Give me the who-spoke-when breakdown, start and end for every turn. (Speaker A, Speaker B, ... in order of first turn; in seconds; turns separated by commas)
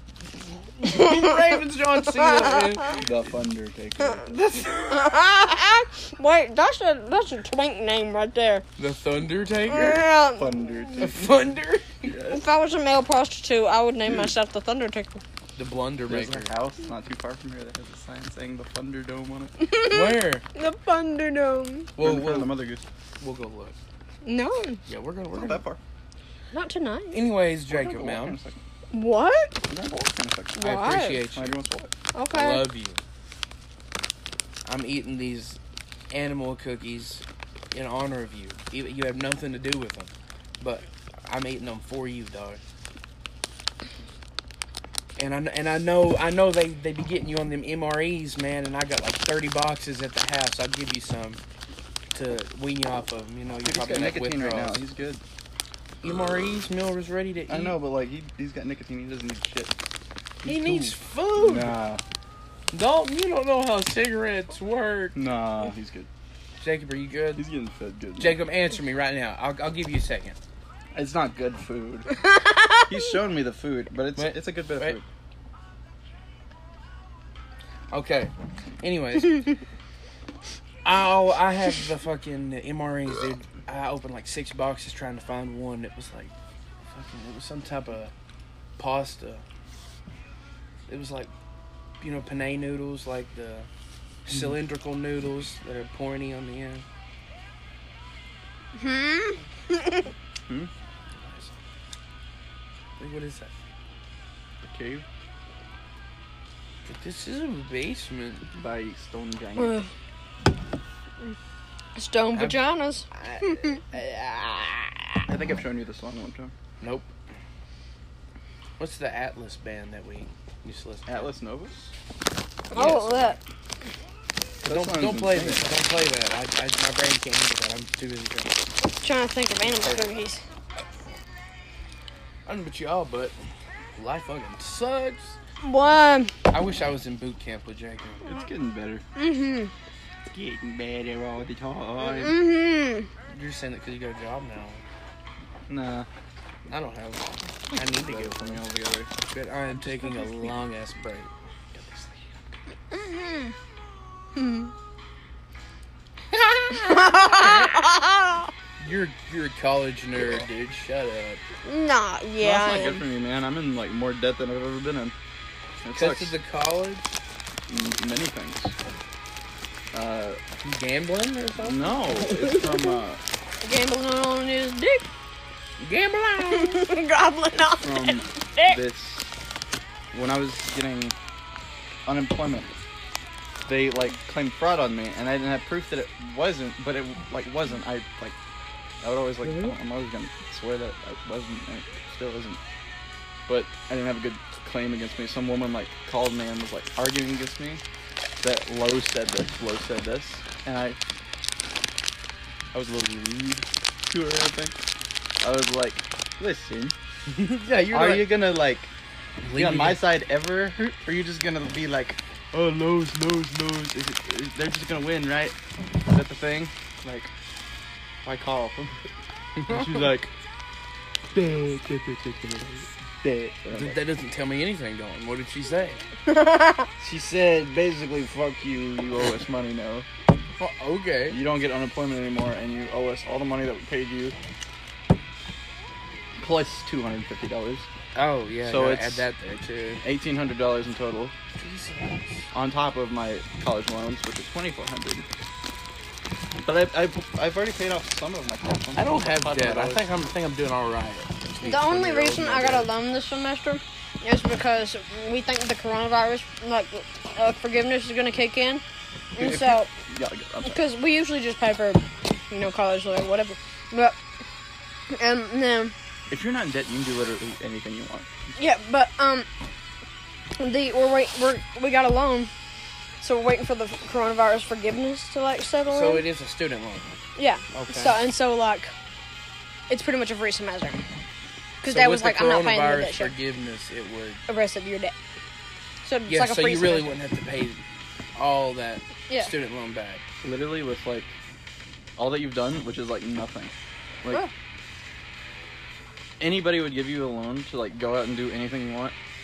Speaker A: 0.8-3.1, Speaker B: 0.8-1.4, Speaker B: 2.1-2.7, Speaker C: 3.0-4.3, Speaker A: 4.2-5.1, Speaker B: 4.8-8.7, Speaker A: 8.8-10.0, Speaker B: 9.7-10.6, Speaker C: 9.7-11.3, Speaker A: 11.0-12.1, Speaker C: 12.0-12.4, Speaker B: 12.2-15.2, Speaker A: 15.6-16.5, Speaker C: 16.1-19.6, Speaker B: 19.6-21.9, Speaker A: 19.8-20.4, Speaker A: 21.9-22.6, Speaker C: 22.0-22.8, Speaker A: 23.2-23.8, Speaker B: 24.2-24.8, Speaker A: 24.9-25.6, Speaker C: 25.3-25.8, Speaker B: 26.5-27.2, Speaker A: 27.1-28.4, Speaker C: 27.7-28.6, Speaker B: 28.9-29.6, Speaker C: 29.7-31.9, Speaker B: 30.5-31.2, Speaker A: 30.6-31.6, Speaker B: 32.1-32.7, Speaker A: 32.3-33.0, Speaker A: 34.6-35.6, Speaker A: 36.1-42.6, Speaker A: 45.2-51.4, Speaker A: 52.1-54.8, Speaker C: 53.6-55.2, Speaker A: 56.0-57.8, Speaker C: 57.5-59.7, Speaker C: 60.4-62.0, Speaker A: 60.4-61.8, Speaker A: 62.7-65.2, Speaker C: 65.1-66.1, Speaker A: 66.6-67.5, Speaker C: 67.3-68.4, Speaker A: 68.2-70.4, Speaker C: 70.9-72.1, Speaker B: 72.2-72.8, Speaker C: 72.8-75.0, Speaker A: 74.2-75.0, Speaker A: 77.9-79.6, Speaker A: 80.8-86.3, Speaker A: 86.9-88.1, Speaker A: 88.8-89.4, Speaker A: 90.9-91.3, Speaker A: 92.0-93.7, Speaker A: 94.2-96.8, Speaker B: 98.8-100.1, Speaker A: 101.1-101.5, Speaker A: 103.0-103.5, Speaker C: 104.6-105.0, Speaker A: 106.8-108.5, Speaker C: 108.5-109.8, Speaker B: 109.6-109.9, Speaker B: 112.0-115.2, Speaker A: 112.3-112.6, Speaker A: 113.1-113.4, Speaker C: 115.3-116.5, Speaker A: 116.8-117.1, Speaker A: 118.8-121.3, Speaker C: 121.0-121.9, Speaker B: 122.7-123.4, Speaker C: 122.7-123.4, Speaker C: 124.6-125.7, Speaker A: 124.6-128.6, Speaker B: 129.0-130.4, Speaker A: 132.4-133.3, Speaker A: 133.9-135.4, Speaker B: 135.6-136.3, Speaker A: 136.5-138.4, Speaker C: 138.2-139.0, Speaker B: 139.2-139.7, Speaker C: 140.3-142.4, Speaker B: 142.0-143.1, Speaker A: 143.3-144.8, Speaker C: 145.7-146.1, Speaker A: 146.7-148.6, Speaker C: 147.7-149.1, Speaker A: 149.3-152.2, Speaker C: 149.8-150.2, Speaker B: 152.9-153.5, Speaker B: 154.3-154.7, Speaker B: 156.7-158.5, Speaker A: 157.4-157.8, Speaker A: 158.8-161.4, Speaker B: 161.6-163.0, Speaker C: 162.4-165.1, Speaker C: 165.8-166.3, Speaker A: 165.9-167.1, Speaker C: 167.7-168.7, Speaker C: 169.9-170.4, Speaker A: 170.6-172.0, Speaker C: 171.6-173.2, Speaker B: 173.6-175.1, Speaker A: 175.8-176.8, Speaker B: 176.5-178.8, Speaker C: 177.8-179.3, Speaker C: 180.1-181.2, Speaker C: 182.1-182.7, Speaker C: 183.6-188.3, Speaker C: 189.0-192.6, Speaker A: 189.4-189.7, Speaker C: 193.5-197.8, Speaker C: 198.4-201.0, Speaker C: 202.7-204.8, Speaker C: 205.4-206.9, Speaker A: 207.3-208.4, Speaker C: 207.9-208.9, Speaker A: 209.4-210.0, Speaker C: 209.5-217.3, Speaker C: 218.2-219.0, Speaker C: 219.7-220.3, Speaker C: 221.3-224.0, Speaker A: 223.7-226.0, Speaker B: 226.3-226.9, Speaker C: 227.0-230.1, Speaker A: 230.6-231.4, Speaker C: 231.3-234.3, Speaker C: 236.4-237.9, Speaker A: 238.1-240.0, Speaker C: 238.6-239.2, Speaker C: 240.0-241.3, Speaker A: 241.6-242.4, Speaker C: 242.5-245.2, Speaker C: 246.5-250.1, Speaker A: 248.9-252.9, Speaker B: 251.6-258.8, Speaker B: 259.3-259.9, Speaker C: 259.4-260.8, Speaker B: 260.6-264.2, Speaker B: 265.1-265.9, Speaker C: 266.3-268.3, Speaker B: 268.6-269.5, Speaker B: 270.6-272.5, Speaker B: 273.2-276.2, Speaker A: 275.9-277.2, Speaker B: 277.4-278.9, Speaker A: 277.7-278.2, Speaker B: 279.9-281.0, Speaker B: 281.8-283.3, Speaker A: 281.8-284.4, Speaker B: 284.5-285.1, Speaker B: 286.0-287.1, Speaker A: 286.3-287.8, Speaker A: 288.3-290.2, Speaker C: 290.4-291.3, Speaker C: 292.2-294.4, Speaker C: 296.4-299.1